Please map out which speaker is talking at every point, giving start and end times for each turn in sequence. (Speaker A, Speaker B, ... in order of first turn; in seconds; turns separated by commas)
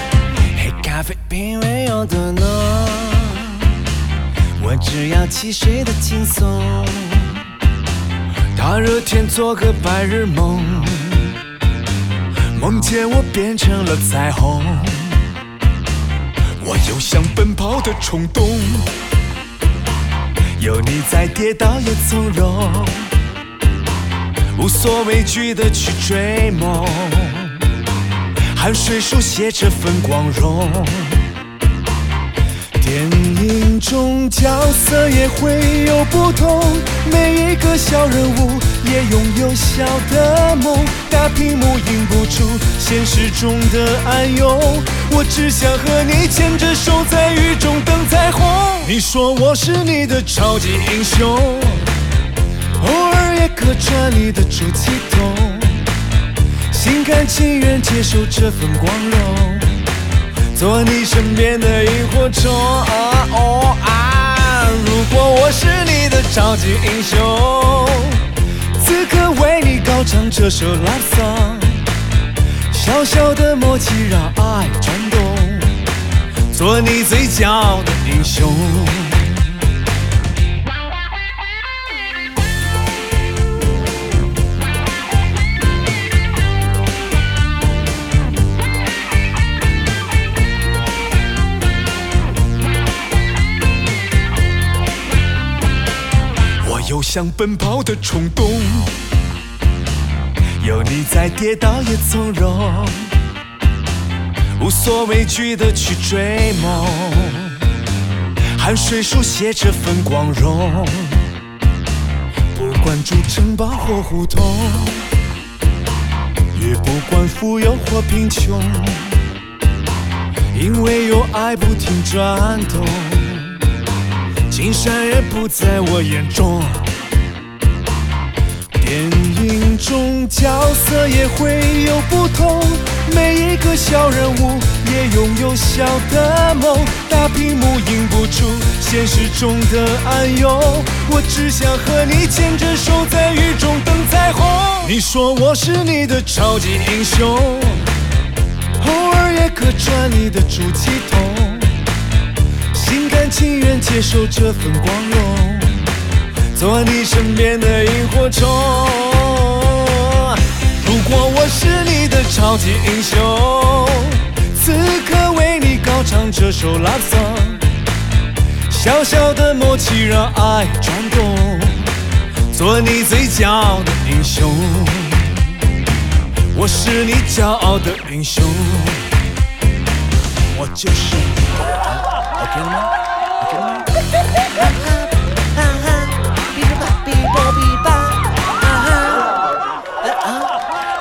Speaker A: 0.5-3.8, Speaker A: 4.5-7.4, Speaker A: 8.5-11.4, Speaker A: 12.5-15.3, Speaker A: 16.6-18.9, Speaker A: 20.6-23.1, Speaker A: 24.5-27.7, Speaker A: 28.5-31.2, Speaker A: 32.8-52.0, Speaker A: 52.8-55.9, Speaker A: 56.7-59.9, Speaker A: 60.5-71.9, Speaker A: 72.7-75.9, Speaker A: 76.5-79.5, Speaker A: 96.6-99.0, Speaker A: 100.6-103.2, Speaker A: 104.5-107.6, Speaker A: 108.5-111.3, Speaker A: 112.5-115.1, Speaker A: 116.5-119.2, Speaker A: 120.5-123.6, Speaker A: 124.5-126.9, Speaker A: 128.8-147.9, Speaker A: 148.8-151.8, Speaker A: 152.7-156.0, Speaker A: 156.5-167.7, Speaker A: 168.7-172.0, Speaker A: 172.5-175.6, Speaker A: 176.5-179.2, Speaker A: 180.5-183.9, Speaker A: 184.6-189.2, Speaker A: 190.0-190.5